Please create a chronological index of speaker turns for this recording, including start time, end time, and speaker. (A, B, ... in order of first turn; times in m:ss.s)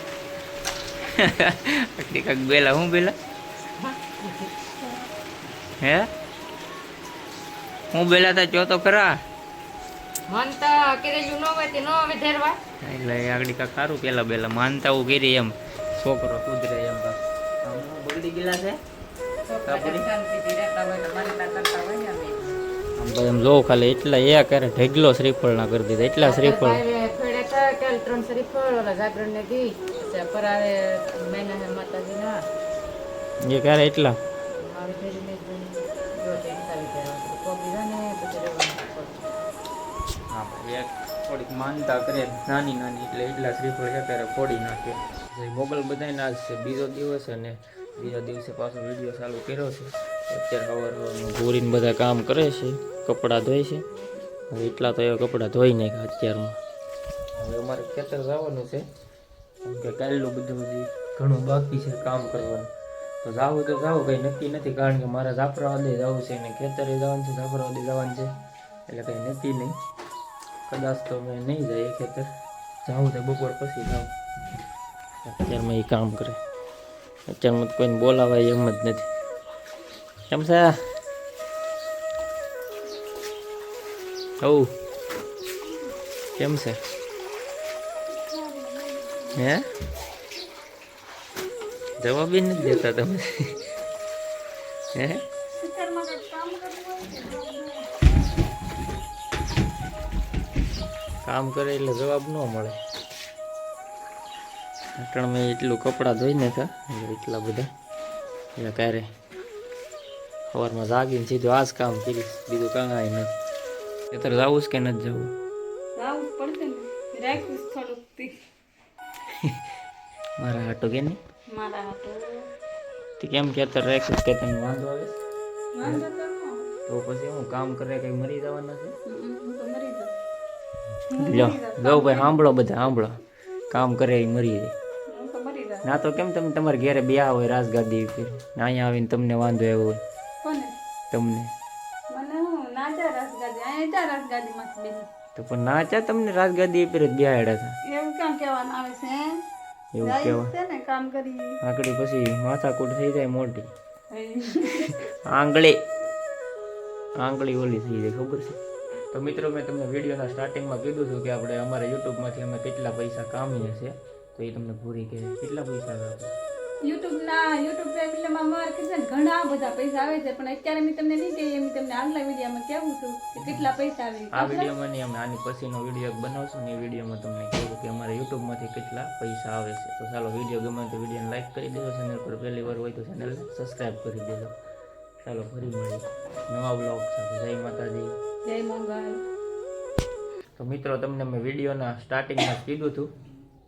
0:01.0-0:03.2 A
0:03.8-0:04.5 B
0:05.8-0:06.1 A
0:07.9-0:09.2 A
0:10.3-0:12.6 B
0:12.8-0:18.8 A
0:19.4-0:22.6 B
0:19.7-0:20.1 A
0:23.0-0:26.8 A
0:26.2-0:32.4 B
0:33.4-0:34.2 A
0:34.5-0:39.3 B
0:40.3-0:53.8 A
0:54.5-0:56.6 A
0:57.4-0:58.8 A
0:59.6-1:02.7 A
1:03.2-1:08.3 A
1:08.9-1:09.8 A
1:10.7-1:12.3 A
1:12.8-1:14.1 A
1:15.2-1:16.4 A
1:17.3-1:19.1 A
1:20.3-1:20.7 A
1:24.4-1:24.7 A
1:26.4-1:26.8 A
1:28.1-1:29.4 C
1:29.3-1:29.6 A
1:32.0-1:33.6 A
1:34.9-1:35.2 A
1:35.6-1:37.9 C
1:41.2-1:42.8 A
1:45.0-1:47.7 A
1:48.6-1:49.0 A
1:50.5-1:53.3 A
1:54.1-1:55.3 A
1:56.0-1:58.3 C
1:59.3-1:59.6 A
2:00.4-2:01.2 A
2:01.5-2:02.5 C
2:03.2-2:05.2 A
2:05.7-2:06.7 C
2:06.9-2:08.9 A
2:09.0-2:10.1 C
2:11.1-2:12.4 C
2:11.2-2:13.2 A
2:13.7-2:14.7 A
2:15.1-2:15.9 C
2:15.8-2:20.0 A
2:20.4-2:20.7 C
2:21.1-2:21.5 A
2:22.1-2:25.1 C
2:25.4-2:27.7 A
2:27.8-2:29.4 C
2:29.9-2:30.5 A
2:30.0-2:31.6 C
2:31.6-2:33.7 A
2:34.1-2:35.0 C
2:35.2-2:35.8 A
2:37.2-2:38.6 A
2:39.1-2:46.3 A
2:46.8-2:54.7 C
2:54.3-3:04.5 A
3:05.2-3:08.1 A
3:08.4-3:09.2 C
3:10.6-3:13.1 A